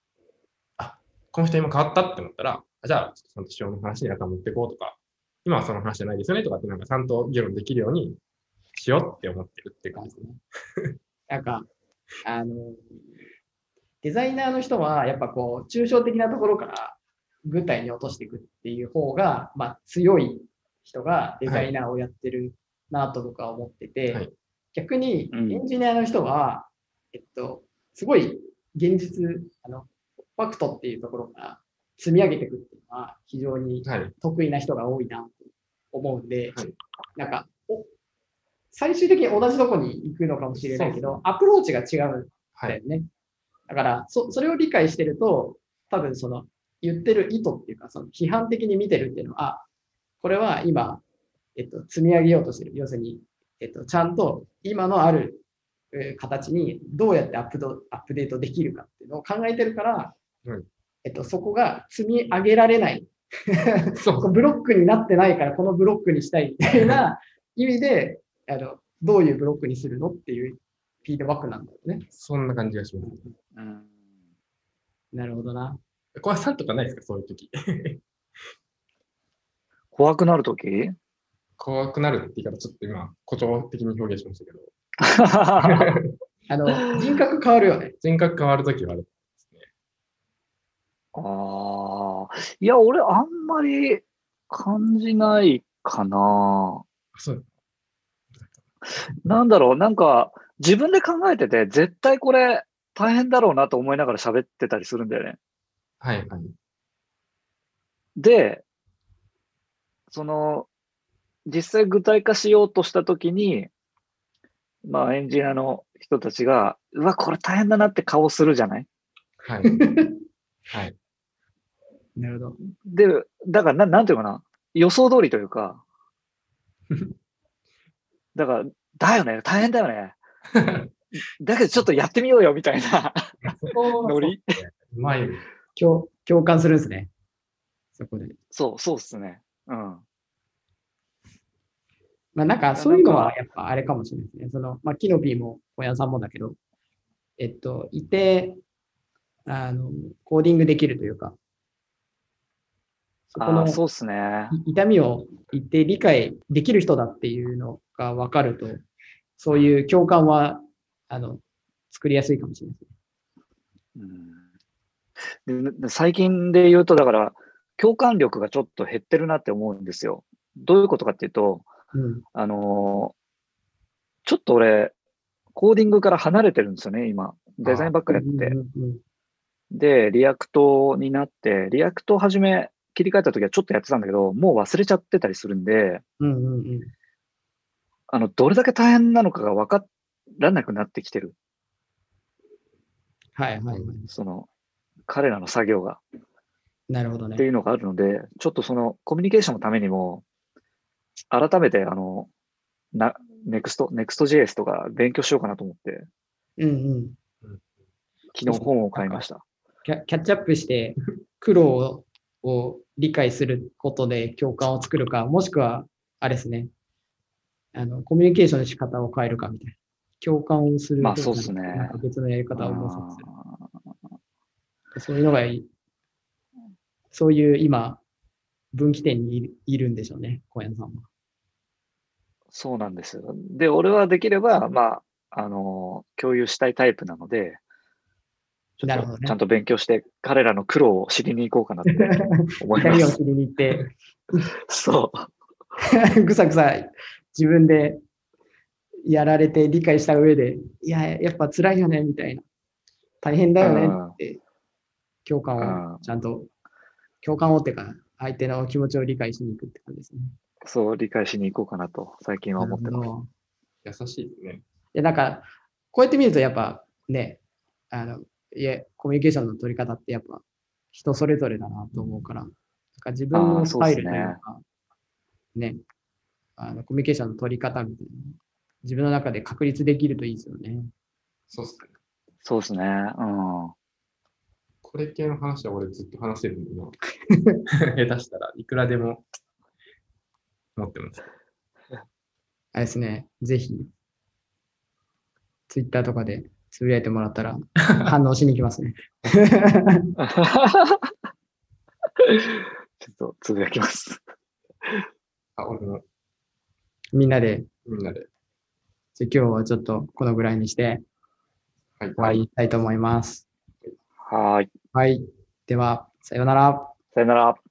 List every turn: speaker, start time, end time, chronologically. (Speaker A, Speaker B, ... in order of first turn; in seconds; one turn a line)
Speaker A: 0.8-8.2
Speaker A: 8.7-10.3
Speaker B: 9.9-10.4
Speaker B: 11.3-11.7
Speaker B: 12.2-13.0
Speaker B: 14.0-36.6
Speaker A: 21.5-21.7
Speaker C: 25.3-25.6
Speaker A: 33.8-34.1
Speaker B: 37.1-37.9
Speaker B: 38.7-43.1
Speaker A: 40.5-41.2
Speaker B: 43.7-49.6
Speaker B: 50.2-51.0
Speaker B: 51.5-60.1
Speaker B: 61.0-72.1
Speaker A: 64.0-64.4
Speaker A: 72.1-73.3
Speaker C: 73.5-73.9
Speaker B: 75.1-75.8
Speaker A: 76.2-78.0
Speaker C: 79.9-81.0
Speaker A: 81.6-84.7
Speaker C: 85.1-85.9
Speaker A: 85.6-86.1
Speaker B: 86.5-88.0
Speaker A: 88.0-89.7
Speaker C: 91.2-96.8
Speaker A: 97.2-97.5
Speaker C: 99.2-105.4
Speaker A: 106.0-106.5
Speaker C: 108.2-108.6
Speaker C: 110.1-110.7
Speaker C: 111.5-113.7
Speaker C: 114.9-118.9
Speaker A: 119.4-119.7
Speaker B: 119.7-120.2
Speaker B: 122.2-122.6
Speaker C: 122.9-125.8
Speaker C: 128.3-130.2
Speaker A: 130.6-130.9
Speaker C: 131.2-134.4
Speaker A: 133.4-135.4
Speaker B: 135.8-137.1
Speaker B: 137.9-138.4
Speaker C: 138.5-140.0
Speaker B: 142.3-146.6
Speaker C: 142.8-143.3
Speaker B: 147.4-148.6
Speaker B: 149.5-151.4
Speaker B: 153.3-153.8
Speaker C: 153.4-154.6
Speaker B: 154.5-158.8
Speaker B: 159.4-162.9
Speaker C: 164.0-164.4
Speaker C: 165.5-171.7
Speaker B: 171.9-172.2
Speaker C: 172.3-173.1
Speaker C: 174.3-174.9
Speaker C: 175.5-178.6
Speaker A: 177.7-177.9
Speaker B: 178.1-179.0
Speaker C: 179.7-186.0
Speaker B: 186.2-186.9
Speaker C: 188.1-191.3
Speaker B: 193.3-194.1
Speaker C: 194.1-194.5
Speaker C: 195.1-196.0
Speaker B: 196.9-197.4
Speaker C: 197.4-200.2
Speaker C: 201.3-202.3
Speaker C: 202.9-206.1
Speaker B: 206.6-207.2
Speaker C: 208.3-209.4
Speaker B: 208.5-209.2
Speaker B: 209.8-216.7
Speaker B: 217.7-223.3
Speaker C: 221.0-222.0
Speaker C: 222.6-223.6
Speaker B: 224.9-225.7
Speaker B: 227.1-228.0
Speaker B: 228.7-231.1
Speaker C: 232.5-237.6
Speaker C: 238.8-243.2
Speaker B: 238.8-239.3
Speaker B: 242.8-244.5
Speaker C: 244.7-245.3
Speaker B: 246.0-248.0
Speaker B: 249.1-252.4
Speaker B: 253.2-254.4
Speaker C: 253.6-254.2
Speaker B: 255.2-256.5
Speaker C: 255.6-256.0
Speaker B: 257.2-260.3
Speaker C: 260.6-263.1
Speaker B: 262.6-263.3
Speaker A: 263.9-264.6
Speaker B: 264.9-274.6
Speaker C: 273.3-274.4
Speaker B: 276.6-280.9
Speaker A: 281.5-281.9
Speaker C: 282.4-283.7
Speaker A: 284.8-287.0
Speaker B: 287.3-287.6
Speaker A: 287.9-289.3
Speaker A: 290.8-291.2
Speaker B: 292.7-293.9
Speaker B: 295.7-300.0
Speaker C: 300.2-301.0
Speaker C: 302.3-304.2
Speaker A: 305.6-306.0
Speaker B: 307.1-307.7
Speaker A: 307.9-308.3
Speaker B: 309.1-311.1
Speaker A: 312.0-312.4
Speaker B: 312.2-313.5
Speaker C: 314.2-314.7
Speaker B: 314.9-316.9
Speaker C: 317.1-317.6